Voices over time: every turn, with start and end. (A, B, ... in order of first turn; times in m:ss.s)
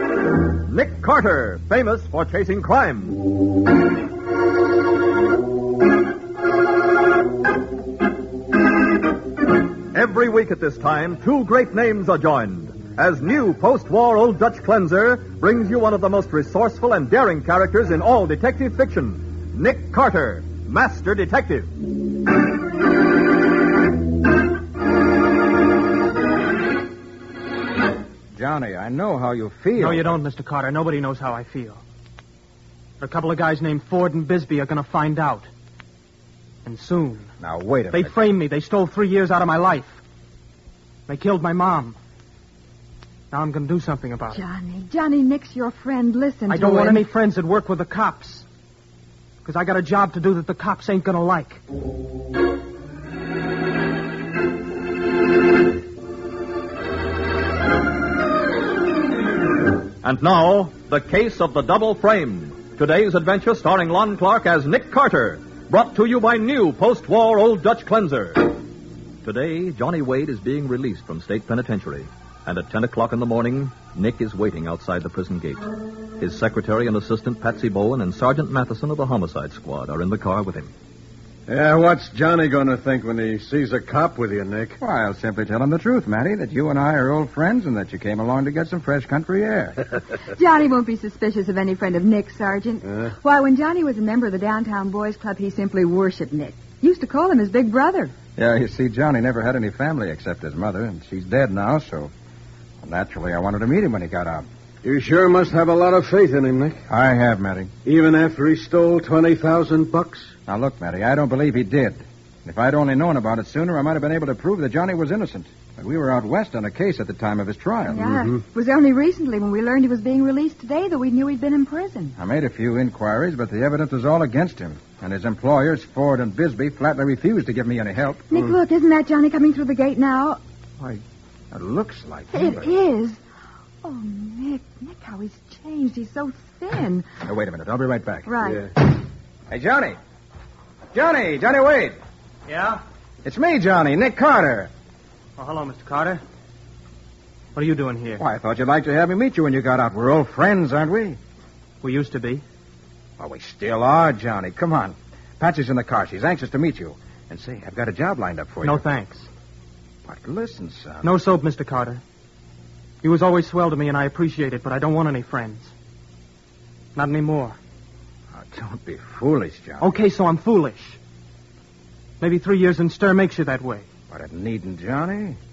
0:00.6-0:03.2 A
0:09.9-0:21.7 A
0:28.3-0:30.2 B
0:29.8-0:31.8 C
0:33.0-0:35.5 C
0:36.6-0:37.3 C
0:37.4-0:38.1 B
0:37.9-0:40.0 C
0:41.1-0:42.0 C
0:43.3-0:44.4 C
0:44.3-0:47.0 D
0:46.5-0:48.5 C
0:49.4-0:51.6 C
1:00.0-1:08.6 A
1:09.2-1:20.7 A
1:21.5-1:24.8 E
1:24.8-1:29.8 B
1:30.3-1:38.1 D
1:38.4-1:42.1 B
1:42.8-1:44.5 B
1:44.8-1:46.8 E
1:46.9-1:47.7 B
1:47.8-1:50.3 E
1:50.5-1:58.1 B
1:57.9-2:02.1 D
2:02.2-2:08.3 B
2:08.3-2:10.4 D
2:10.8-2:12.7 B
2:12.3-2:13.2 D
2:13.8-2:17.1 D
2:17.2-2:18.3 B
2:18.2-2:18.6 D
2:18.4-2:18.7 E
2:19.5-2:20.0 B
2:20.9-2:22.0 B
2:22.4-2:22.8 C
2:23.2-2:24.7 B
2:25.4-2:26.2 C
2:27.5-2:28.2 C
2:28.2-2:31.2 B
2:31.8-2:32.4 C
2:33.2-2:38.8 B
2:38.6-2:39.3 C
2:40.0-2:41.1 B
2:41.0-2:42.0 C
2:43.0-2:45.7 C
2:46.9-2:47.6 C
2:48.3-2:49.9 B
2:49.8-2:51.0 C
2:52.2-2:53.9 C
2:54.1-2:55.4 B